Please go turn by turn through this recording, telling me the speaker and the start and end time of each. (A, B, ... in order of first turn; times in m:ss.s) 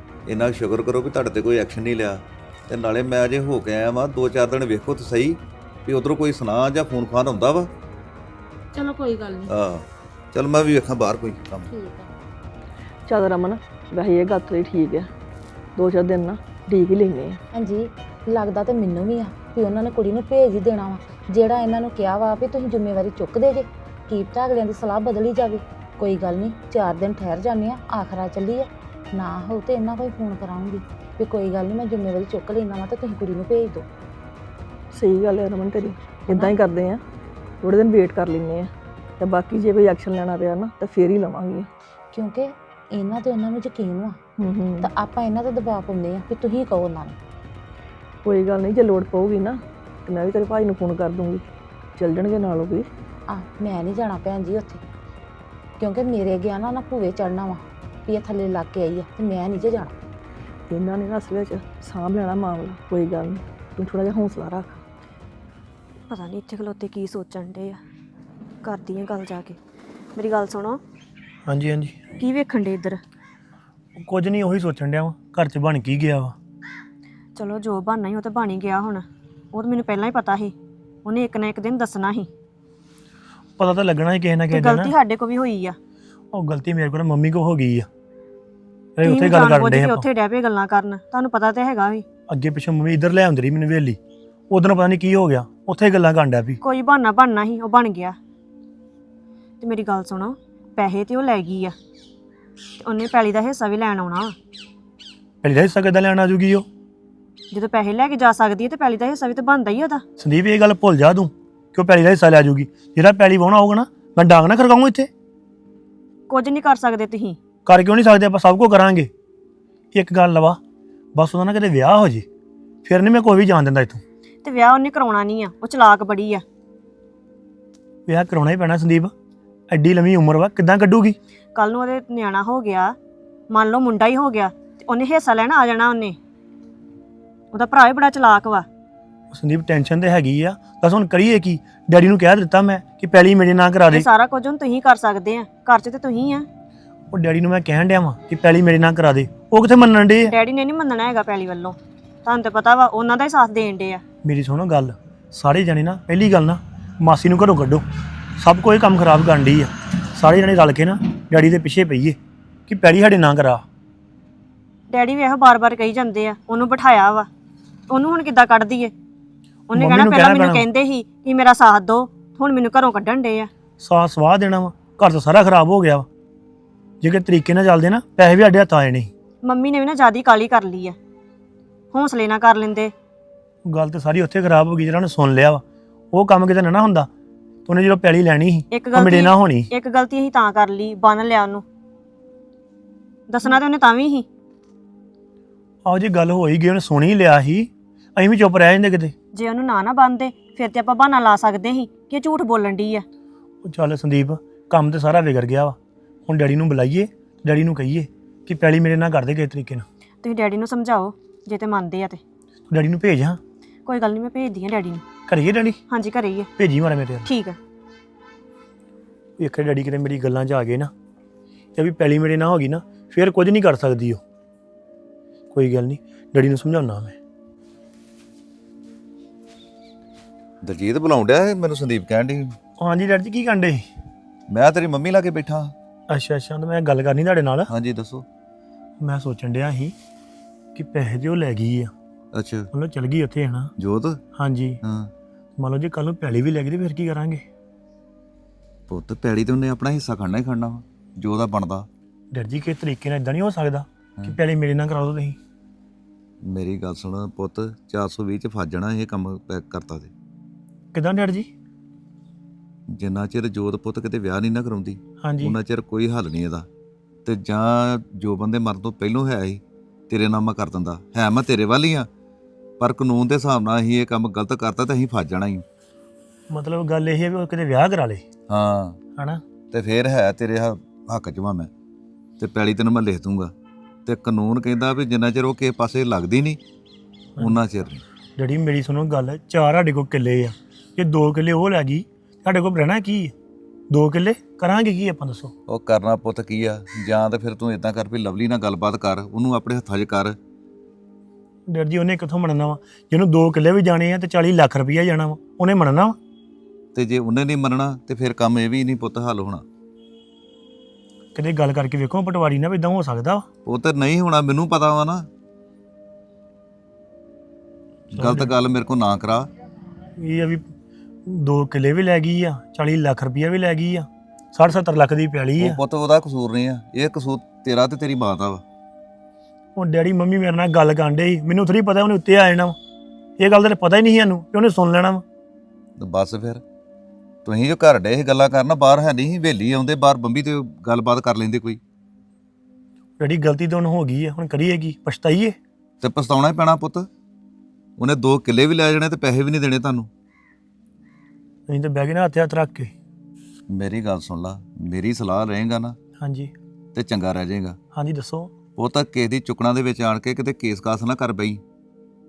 0:00.3-0:07.7 A
0:08.7-0:09.5 B
0:09.5-0:11.7 A
0:11.7-0:12.1 B
0:13.1-0:15.1 C
0:15.8-0:17.4 C
0:17.6-0:33.9 B
0:34.9-0:37.0 C
0:36.3-0:36.6 B
0:37.6-0:41.7 C
0:42.1-0:44.2 B
0:44.4-0:44.9 C
0:44.8-0:47.2 B
0:48.2-0:51.4 C
0:52.0-0:52.9 C
0:53.3-0:54.8 B
0:55.8-0:59.9 B
1:00.7-1:04.8 C
1:06.1-1:07.8 D
1:08.6-1:09.6 D
1:10.2-1:10.8 D
1:11.5-1:12.0 E
1:12.2-1:13.0 D
1:14.0-1:16.4 E
1:17.4-1:20.5 D
1:21.0-1:22.3 D
1:23.6-1:25.0 E
1:24.5-1:25.8 D
1:26.3-1:27.9 E
1:29.0-1:30.1 E
1:29.0-1:32.0 D
1:32.3-1:34.0 E
1:34.5-1:36.6 E
1:36.6-1:38.2 D
1:39.6-1:41.8 D
1:42.8-1:44.4 D
1:45.4-1:46.7 E
1:47.5-1:50.0 D
1:50.2-1:55.1 E
1:56.3-1:57.4 D
1:57.7-1:59.1 E
1:59.9-2:00.6 E
2:01.2-2:02.3 E
2:02.8-2:04.0 E
2:04.4-2:06.4 D
2:08.1-2:09.1 E
2:09.7-2:11.2 E
2:11.6-2:13.0 D
2:13.5-2:16.2 D
2:17.5-2:18.7 D
2:19.3-2:24.1 E
2:23.9-2:26.5 D
2:27.1-2:30.3 E
2:30.3-2:34.0 D
2:34.2-2:37.8 E
2:38.4-2:43.6 E
2:44.9-2:47.3 D
2:47.9-2:48.9 D
2:49.7-2:53.5 D
2:49.7-2:50.7 E
2:53.8-2:56.1 E
2:57.0-2:59.1 E
2:59.4-3:01.0 D
3:01.9-3:02.9 D
3:03.7-3:07.1 E
3:07.7-3:09.7 E
3:08.7-3:11.6 D
3:13.3-3:14.3 D
3:15.9-3:19.1 E
3:19.3-3:23.0 D
3:23.6-3:29.9 E
3:30.2-3:32.2 D
3:32.7-3:33.4 E
3:33.9-3:35.0 D
3:35.3-3:35.8 E
3:35.9-3:36.5 D
3:36.6-3:37.3 E
3:37.3-3:37.6 D
3:39.4-3:40.9 E
3:41.8-3:44.2 E
3:45.5-3:47.2 E
3:50.6-3:52.6 A
3:52.8-3:53.9 E
3:54.5-3:55.7 A
3:56.1-3:57.7 E
3:57.7-3:58.3 A
3:59.0-4:00.0 E
4:00.8-4:01.9 E
4:02.3-4:02.7 A
4:02.7-4:03.7 E
4:03.8-4:04.2 A
4:04.4-4:04.8 E
4:04.8-4:05.1 A
4:05.6-4:07.4 E
4:08.9-4:11.9 A
4:12.3-4:15.4 E
4:16.4-4:20.1 A
4:20.9-4:21.5 E
4:22.9-4:26.7 A
4:25.2-4:25.6 E
4:27.3-4:32.1 A
4:32.8-4:35.6 A
4:36.5-4:38.2 E
4:38.5-4:39.0 A
4:39.2-4:39.4 E
4:39.7-4:41.7 A
4:42.4-4:43.5 A
4:44.1-4:46.6 A
4:47.4-4:48.0 A
4:48.4-4:53.3 E
4:53.9-4:55.5 E
4:55.7-5:00.4 A
5:01.7-5:06.2 E
5:06.9-5:09.6 A
5:11.4-5:13.4 E
5:13.6-5:15.3 A
5:18.1-5:18.5 E
5:18.2-5:19.5 A
5:20.2-5:20.6 E
5:21.3-5:25.8 E
5:25.6-5:28.6 A
5:29.8-5:32.8 E
5:33.4-5:35.2 E
5:36.0-5:36.6 A
5:37.4-5:41.8 A
5:43.2-5:45.6 E
5:46.0-5:47.1 A
5:48.0-5:50.1 A
5:51.7-5:52.9 E
5:53.7-5:56.0 A
5:56.2-5:56.5 E
5:57.0-5:57.8 A
5:58.0-5:58.5 E
5:58.8-6:01.6 A